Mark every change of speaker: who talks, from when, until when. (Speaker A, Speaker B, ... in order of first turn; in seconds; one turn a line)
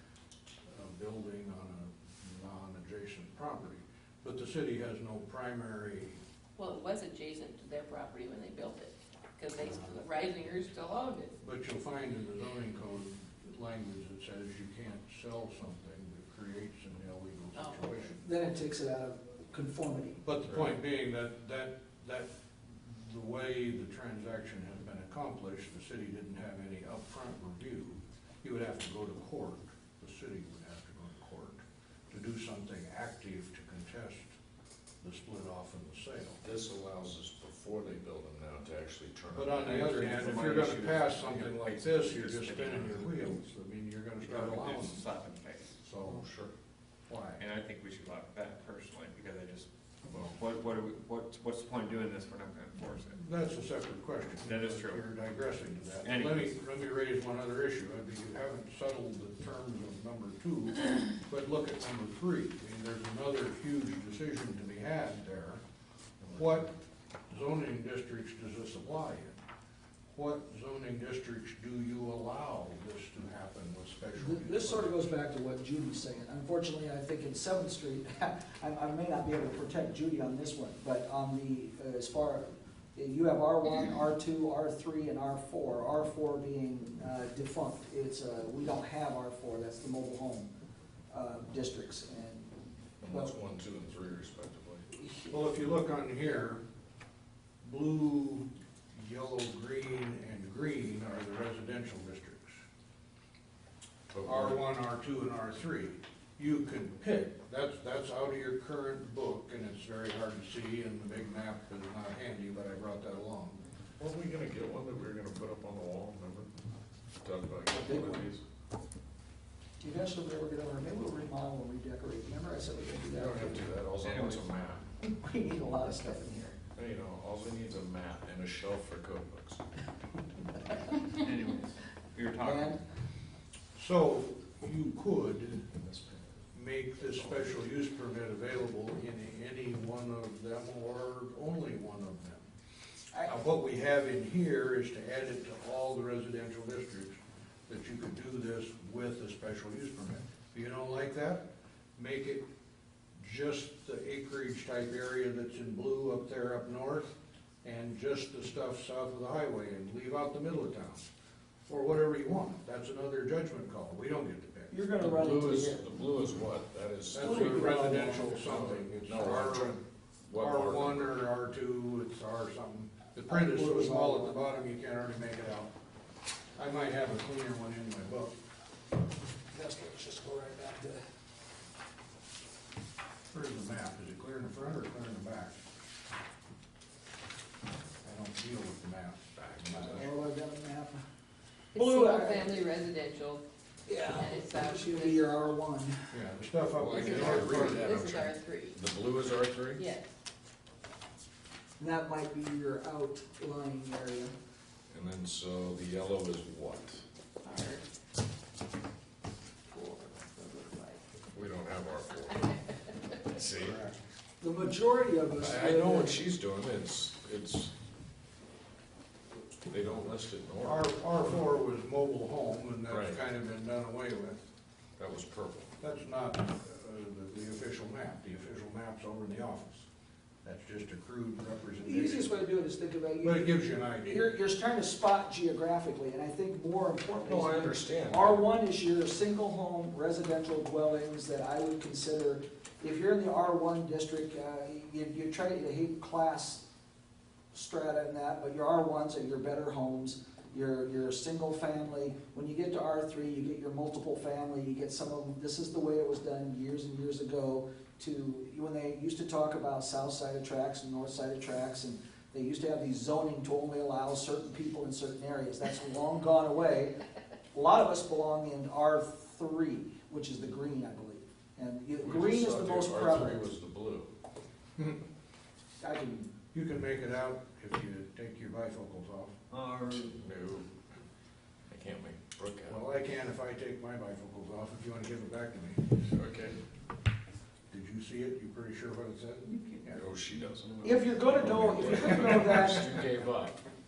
Speaker A: 0.7-6.2
Speaker B: 6.6-11.3
Speaker A: 9.6-10.0
Speaker A: 11.4-18.2
Speaker B: 17.5-17.9
Speaker C: 18.2-20.2
Speaker A: 20.2-34.4
Speaker A: 35.0-36.4
Speaker D: 36.4-40.2
Speaker A: 39.3-45.0
Speaker E: 39.5-43.3
Speaker E: 44.2-45.8
Speaker A: 45.8-46.2
Speaker D: 46.0-46.5
Speaker A: 47.1-47.4
Speaker E: 47.4-53.2
Speaker A: 53.1-65.6
Speaker E: 54.4-55.0
Speaker E: 56.0-56.6
Speaker A: 66.2-66.7
Speaker A: 67.3-69.4
Speaker A: 70.1-75.0
Speaker C: 74.2-90.5
Speaker C: 91.1-93.3
Speaker D: 93.0-94.9
Speaker C: 95.0-95.3
Speaker A: 95.3-96.6
Speaker A: 97.6-102.6
Speaker D: 104.1-104.6
Speaker A: 104.2-113.6
Speaker D: 114.0-116.5
Speaker D: 117.2-118.4
Speaker C: 117.7-118.2
Speaker C: 119.8-123.7
Speaker D: 123.1-124.8
Speaker E: 124.0-124.5
Speaker C: 125.0-126.6
Speaker D: 126.7-129.6
Speaker E: 131.1-132.8
Speaker C: 132.4-132.8
Speaker A: 133.8-135.7
Speaker D: 135.8-136.2
Speaker A: 136.5-142.5
Speaker D: 137.1-137.5
Speaker A: 143.2-147.2
Speaker A: 147.7-152.4
Speaker A: 153.2-161.1
Speaker A: 161.7-164.8
Speaker C: 164.7-165.9
Speaker D: 165.0-171.2
Speaker A: 167.1-169.8
Speaker C: 167.1-168.5
Speaker A: 170.3-175.7
Speaker C: 173.3-174.4
Speaker A: 176.6-178.4
Speaker C: 179.5-181.0
Speaker A: 183.3-185.6
Speaker A: 188.0-190.1
Speaker D: 189.4-190.1
Speaker C: 189.8-191.0
Speaker B: 191.7-193.4
Speaker C: 191.7-192.7
Speaker C: 193.9-196.1
Speaker B: 194.0-195.3
Speaker A: 196.1-197.8
Speaker D: 196.8-199.8
Speaker B: 196.8-198.8
Speaker B: 199.8-200.1
Speaker C: 201.8-204.3
Speaker D: 204.9-207.0
Speaker B: 207.4-207.8
Speaker B: 209.7-211.0
Speaker D: 211.3-213.8
Speaker A: 213.6-214.0
Speaker C: 214.4-216.2
Speaker D: 215.3-217.7
Speaker D: 219.7-220.9
Speaker A: 220.6-224.4
Speaker D: 222.9-223.2
Speaker D: 225.0-225.7
Speaker A: 225.8-229.8
Speaker A: 230.4-232.3
Speaker C: 231.8-246.6
Speaker A: 233.2-234.3
Speaker D: 237.2-238.5
Speaker C: 247.5-267.0
Speaker C: 267.5-273.4
Speaker D: 272.0-274.1
Speaker C: 275.8-276.3
Speaker A: 276.5-279.3
Speaker E: 279.5-280.1
Speaker D: 279.9-280.7
Speaker D: 281.7-282.8
Speaker A: 282.7-286.0
Speaker D: 286.1-286.6
Speaker A: 287.7-290.0
Speaker D: 289.9-293.6
Speaker C: 290.8-293.1